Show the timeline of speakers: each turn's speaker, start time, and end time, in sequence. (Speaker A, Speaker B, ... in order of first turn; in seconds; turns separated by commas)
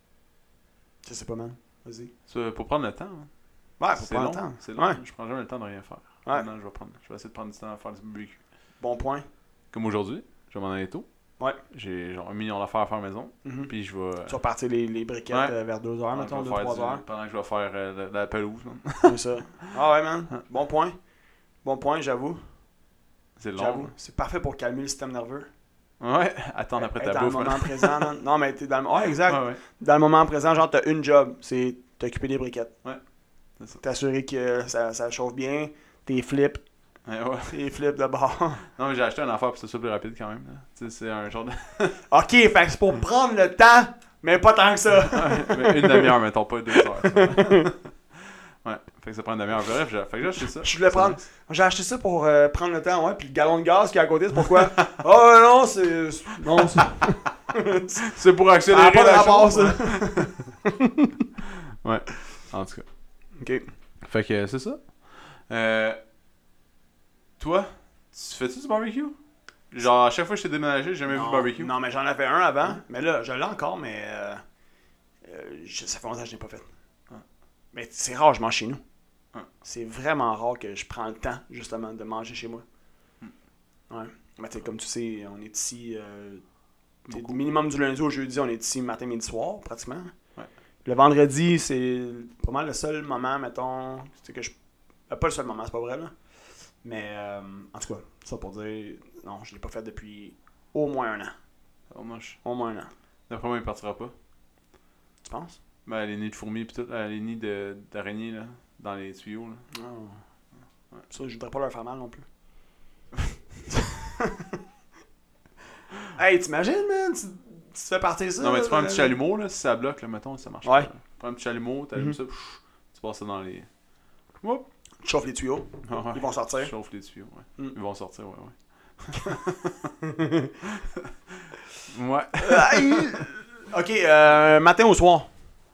Speaker A: 1.0-2.1, Speaker B: 2.3-3.3, Speaker A: 3.8-5.0, Speaker B: 3.9-8.4, Speaker A: 8.8-9.2, Speaker B: 9.7-11.1, Speaker B: 11.7-14.3, Speaker A: 13.4-13.7, Speaker A: 14.2-17.0, Speaker B: 15.3-15.5, Speaker B: 16.1-19.3, Speaker A: 19.0-20.9, Speaker A: 21.6-22.4, Speaker B: 23.4-23.9, Speaker A: 23.5-25.5, Speaker B: 26.0-28.1, Speaker A: 26.8-32.7, Speaker B: 29.1-29.6, Speaker A: 33.8-36.6, Speaker B: 37.0-37.6, Speaker A: 37.5-38.6, Speaker B: 38.7-42.0, Speaker A: 42.1-46.1, Speaker B: 45.1-51.2, Speaker A: 46.7-47.7, Speaker A: 50.6-58.1, Speaker B: 56.6-56.9, Speaker B: 58.0-60.5, Speaker A: 58.7-61.1, Speaker B: 61.4-62.9, Speaker A: 63.4-63.7, Speaker B: 64.0-66.0, Speaker B: 67.4-69.2, Speaker B: 69.7-71.7, Speaker A: 71.1-74.4, Speaker A: 75.2-76.7, Speaker A: 77.7-78.8, Speaker A: 79.6-82.6, Speaker A: 83.9-86.4, Speaker A: 87.0-90.1, Speaker B: 87.1-87.4, Speaker A: 90.8-94.5, Speaker A: 95.1-96.1, Speaker A: 96.8-101.3, Speaker B: 101.9-102.4, Speaker A: 102.4-102.9, Speaker B: 103.3-104.1, Speaker A: 105.2-105.6, Speaker B: 105.8-109.6, Speaker A: 109.7-110.2, Speaker A: 111.1-112.2, Speaker A: 113.7-114.5, Speaker A: 116.1-119.1, Speaker B: 118.4-123.7, Speaker A: 120.6-120.9, Speaker A: 125.0-126.7, Speaker B: 125.8-129.9, Speaker A: 130.0-130.6, Speaker B: 130.6-133.2, Speaker A: 132.4-135.3